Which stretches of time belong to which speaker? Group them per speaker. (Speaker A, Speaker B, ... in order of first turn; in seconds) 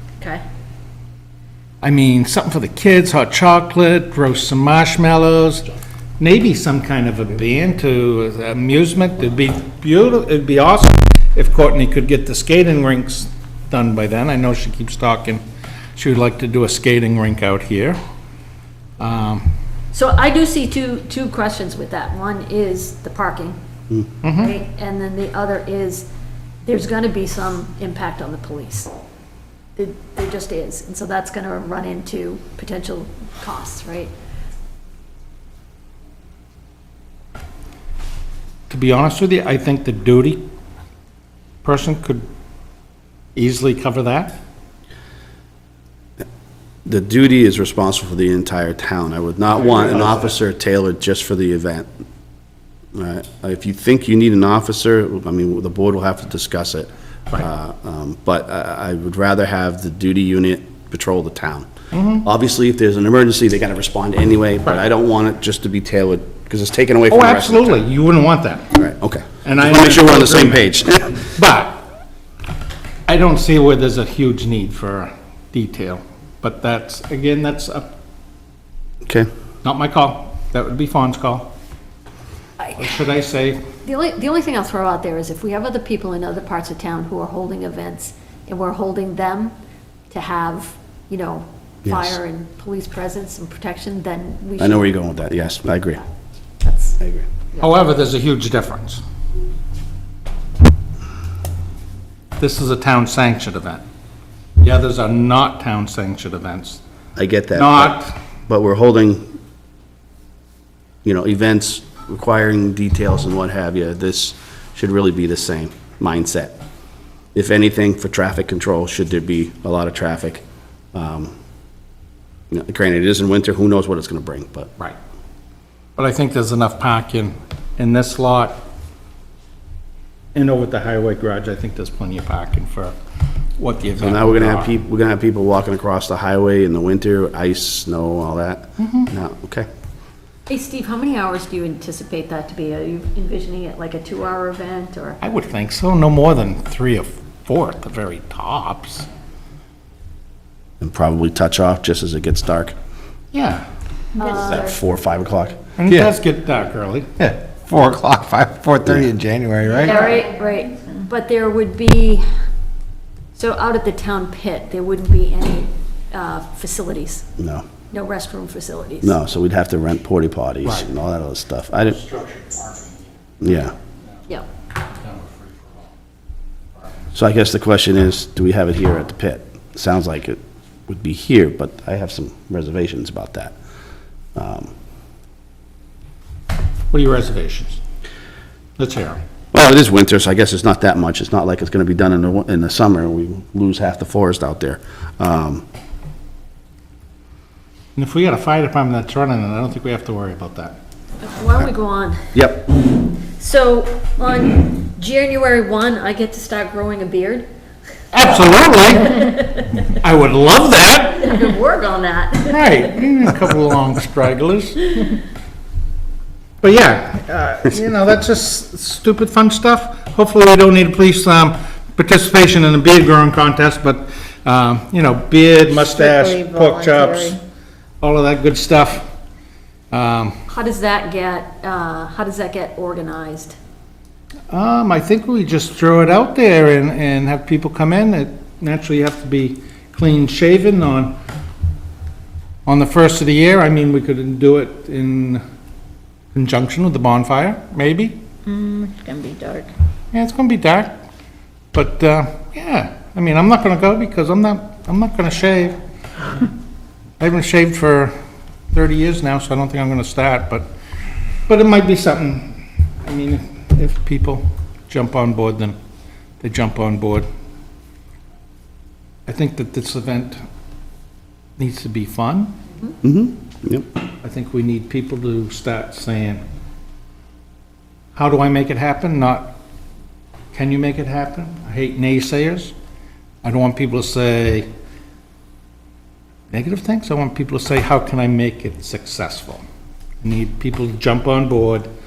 Speaker A: 1.8-5.7, 6.2-15.4, 16.0-18.0, 19.0-19.5, 24.2-24.6, 38.7-40.4, 41.6-42.3, 43.4-44.4, 49.6-50.3, 61.9-62.3, 67.1-68.7, 69.4-70.8, 71.3-71.8, 73.1-77.9, 79.6-81.5, 82.8-83.6, 97.6-99.0, 102.4-103.8, 104.6-106.8, 107.5-108.2, 126.0-128.6, 130.3-132.9, 133.6-134.7, 138.8-139.1, 145.2-149.1, 153.3-153.7, 155.8-157.2, 172.0-173.0, 175.0-175.7, 186.9-187.8, 188.8-189.2, 198.0-200.8, 208.1-211.4, 212.5-215.2, 216.6-227.4, 228.0-229.1, 229.9-230.3, 234.5-241.2, 242.7-245.4, 246.3-248.2, 250.1-251.0, 251.7-255.8, 257.2-258.1, 258.7-260.7, 261.5-265.8, 266.4-267.3, 269.3-270.4, 271.6-272.6, 274.2-276.4, 278.1-279.6, 280.5-282.7, 283.4-284.7, 286.5-289.6, 290.2-291.9
Speaker B: 19.9-23.6, 24.3-26.1, 26.6-28.9, 29.8-34.1, 83.8-89.5, 90.1-94.9, 96.6-97.0, 140.5-145.2, 154.2-154.8, 159.8-162.2, 163.3-167.3, 167.9-169.2, 201.2-202.3, 203.4-207.5, 209.2-209.8, 211.2-212.8, 230.5-233.6
Speaker C: 46.9-51.9, 52.9-61.7, 62.2-67.8, 68.7-71.2, 91.8-92.2, 94.6-96.0, 97.0-97.3, 107.2-109.3, 111.0-116.6, 117.3-120.4, 120.9-121.3, 122.5-124.7, 134.0-139.7, 150.8-152.7, 154.3-155.6, 158.8-159.1, 167.4-167.7, 169.0-172.0, 173.4-173.7, 177.1-183.6, 184.3-184.7, 189.5-195.6, 202.3-202.7, 273.0-273.9
Speaker D: 155.9-156.1, 157.2-160.1
Speaker E: 159.7-160.2, 225.8-227.4, 248.5-249.7